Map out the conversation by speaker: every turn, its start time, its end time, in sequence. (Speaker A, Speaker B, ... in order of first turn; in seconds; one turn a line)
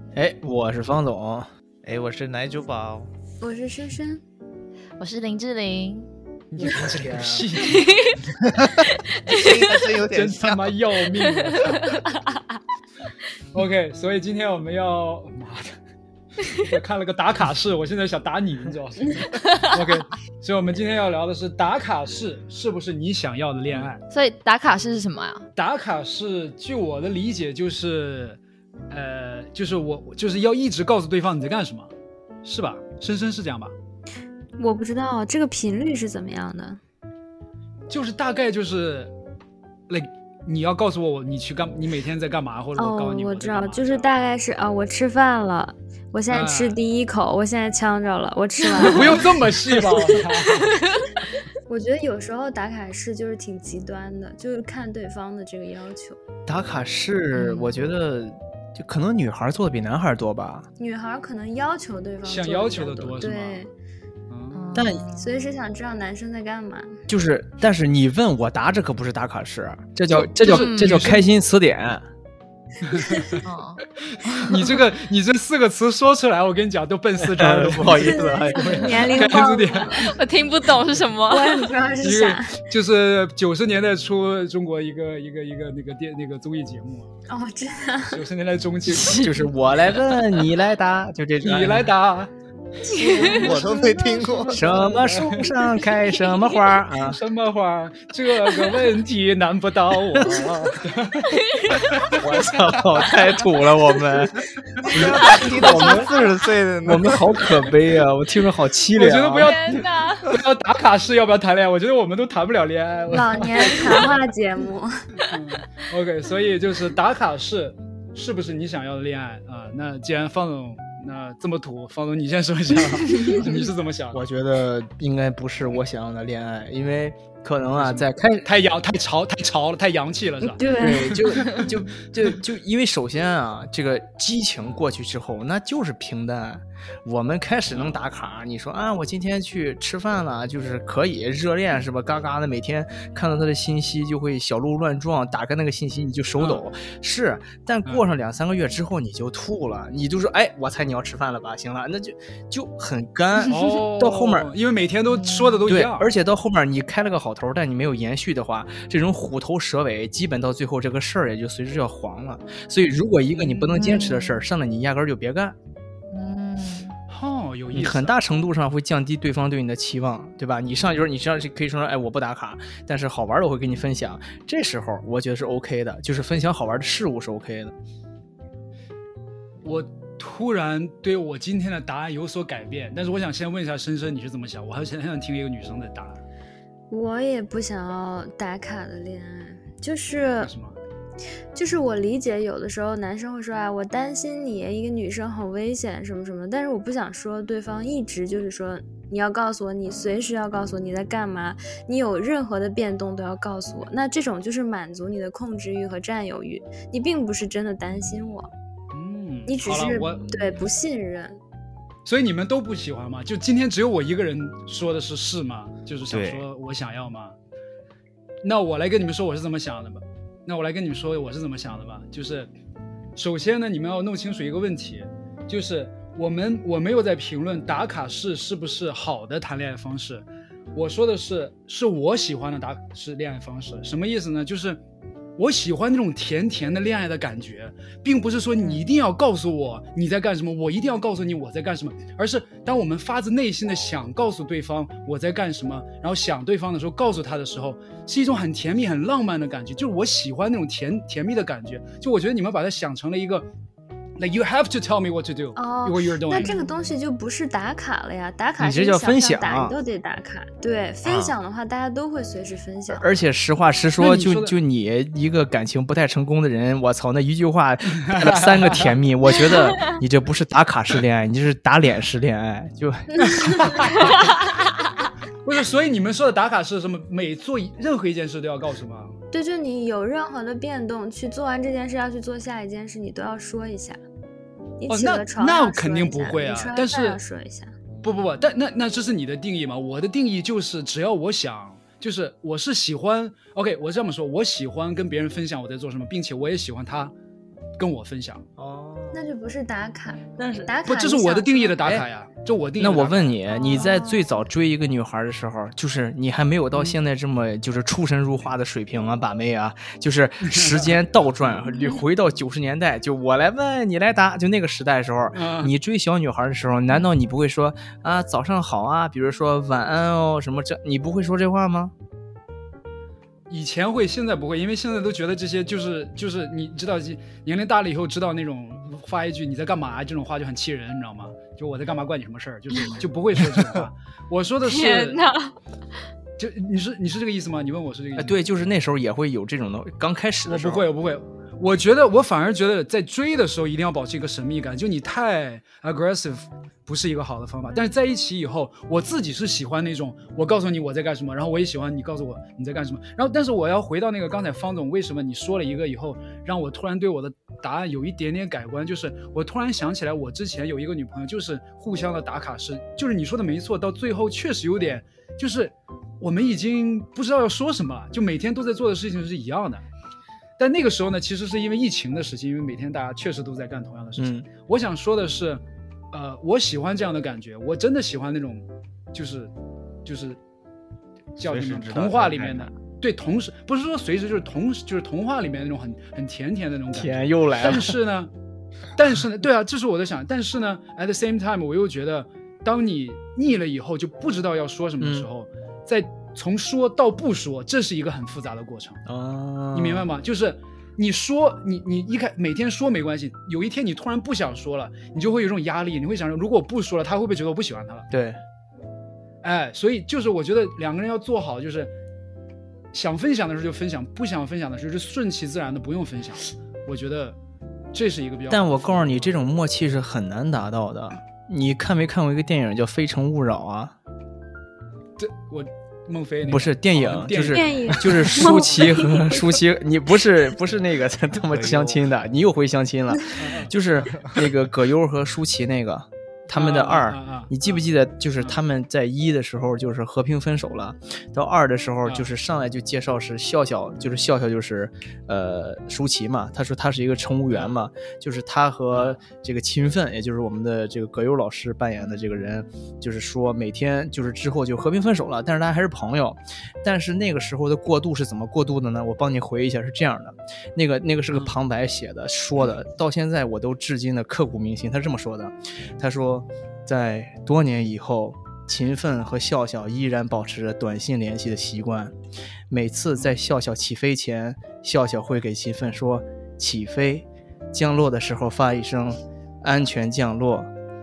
Speaker A: 0.1-1.5
Speaker B: 1.8-3.1
Speaker C: 3.4-4.2
Speaker D: 5.0-6.1
Speaker E: 6.5-7.9
Speaker A: 6.6-7.5
Speaker D: 7.7-8.2
Speaker D: 8.8-9.5
Speaker B: 9.2-10.8
Speaker E: 10.0-11.9
Speaker D: 11.8-12.3
Speaker E: 13.5-15.8
Speaker E: 16.5-24.0
Speaker D: 24.1-25.4
Speaker E: 25.6-28.4
Speaker E: 28.9-31.9
Speaker E: 32.4-33.7
Speaker C: 34.6-36.8
Speaker E: 37.9-39.1
Speaker E: 39.9-44.1
Speaker C: 42.8-49.3
Speaker E: 46.3-46.8
Speaker D: 48.7-49.1
Speaker E: 48.8-50.7
Speaker D: 50.7-51.1
Speaker C: 51.7-56.2
Speaker A: 56.5-60.6
Speaker D: 57.3-57.9
Speaker C: 60.8-63.7
Speaker E: 62.2-63.7
Speaker E: 64.3-64.8
Speaker D: 64.5-65.4
Speaker A: 64.7-65.0
Speaker C: 65.2-66.9
Speaker A: 67.1-72.0
Speaker E: 70.1-71.2
Speaker D: 70.5-71.1
Speaker E: 72.8-73.3
Speaker C: 73.0-73.4
Speaker D: 73.4-74.4
Speaker E: 74.1-80.1
Speaker A: 77.2-79.4
Speaker C: 77.9-80.1
Speaker D: 80.0-81.7
Speaker C: 81.3-82.5
Speaker E: 82.0-87.1
Speaker C: 87.3-88.2
Speaker E: 88.1-89.3
Speaker A: 88.9-91.9
Speaker D: 88.9-89.4
Speaker E: 91.4-92.3
Speaker D: 92.9-93.5
Speaker C: 92.9-94.8
Speaker E: 93.0-93.6
Speaker B: 93.3-94.7
Speaker A: 94.5-97.2
Speaker E: 94.6-95.5
Speaker E: 96.9-101.4
Speaker A: 100.1-100.8
Speaker D: 101.4-101.8
Speaker A: 102.1-106.1
Speaker B: 104.8-107.3
Speaker A: 106.8-109.5
Speaker E: 108.9-114.0
Speaker D: 109.4-110.3
Speaker C: 113.1-115.2
Speaker E: 115.3-124.2
Speaker C: 123.2-123.4
Speaker A: 124.1-128.4
Speaker E: 127.8-130.6
Speaker C: 130.5-131.2
Speaker A: 130.8-154.5
Speaker E: 146.4-146.7
Speaker E: 153.5-156.1
Speaker D: 155.2-155.6
Speaker A: 155.7-165.6
Speaker E: 163.3-163.8
Speaker D: 163.8-164.4
Speaker D: 166.1-166.9
Speaker E: 167.1-168.2
Speaker A: 167.7-177.7
Speaker E: 179.6-186.2
Speaker C: 186.9-190.5
Speaker E: 190.4-190.8
Speaker C: 191.5-208.5
Speaker E: 208.9-210.2
Speaker C: 209.5-211.4
Speaker A: 209.8-210.5
Speaker E: 212.1-217.3
Speaker B: 216.1-216.5
Speaker E: 218.4-222.5
Speaker E: 223.2-234.8
Speaker E: 235.4-253.5
Speaker E: 254.2-256.6
Speaker C: 255.6-263.0
Speaker D: 256.4-256.9
Speaker A: 258.6-259.8
Speaker B: 261.0-261.3
Speaker A: 262.9-273.3
Speaker E: 264.0-264.6
Speaker E: 268.1-268.9
Speaker E: 273.6-274.0
Speaker E: 275.4-279.1
Speaker C: 279.3-284.0
Speaker C: 284.8-287.7
Speaker E: 284.9-287.2
Speaker E: 288.0-297.1
Speaker E: 297.8-298.4
Speaker A: 298.6-299.3
Speaker C: 299.1-301.9
Speaker A: 300.3-300.7
Speaker E: 300.8-303.4
Speaker A: 302.8-321.9
Speaker C: 303.5-304.2
Speaker E: 310.5-310.9
Speaker E: 315.3-315.7
Speaker E: 323.5-335.2
Speaker D: 334.6-335.6
Speaker E: 336.4-338.4
Speaker A: 338.1-340.9
Speaker E: 340.5-369.8
Speaker E: 370.6-379.5
Speaker A: 374.2-374.4
Speaker E: 380.0-380.4
Speaker B: 381.4-382.7
Speaker E: 381.4-388.3
Speaker A: 386.9-387.9
Speaker E: 388.9-399.0
Speaker A: 395.0-395.3
Speaker A: 399.1-400.1
Speaker E: 399.7-408.1
Speaker A: 408.1-408.4
Speaker E: 409.4-411.9
Speaker E: 412.9-417.4
Speaker E: 417.9-419.3
Speaker A: 418.5-423.9
Speaker E: 425.2-428.5
Speaker A: 426.5-472.1
Speaker C: 427.5-429.4
Speaker B: 431.5-432.0
Speaker E: 433.4-433.7
Speaker E: 436.5-437.5
Speaker E: 442.0-442.3
Speaker E: 447.5-447.8
Speaker E: 448.9-449.2
Speaker A: 472.7-480.7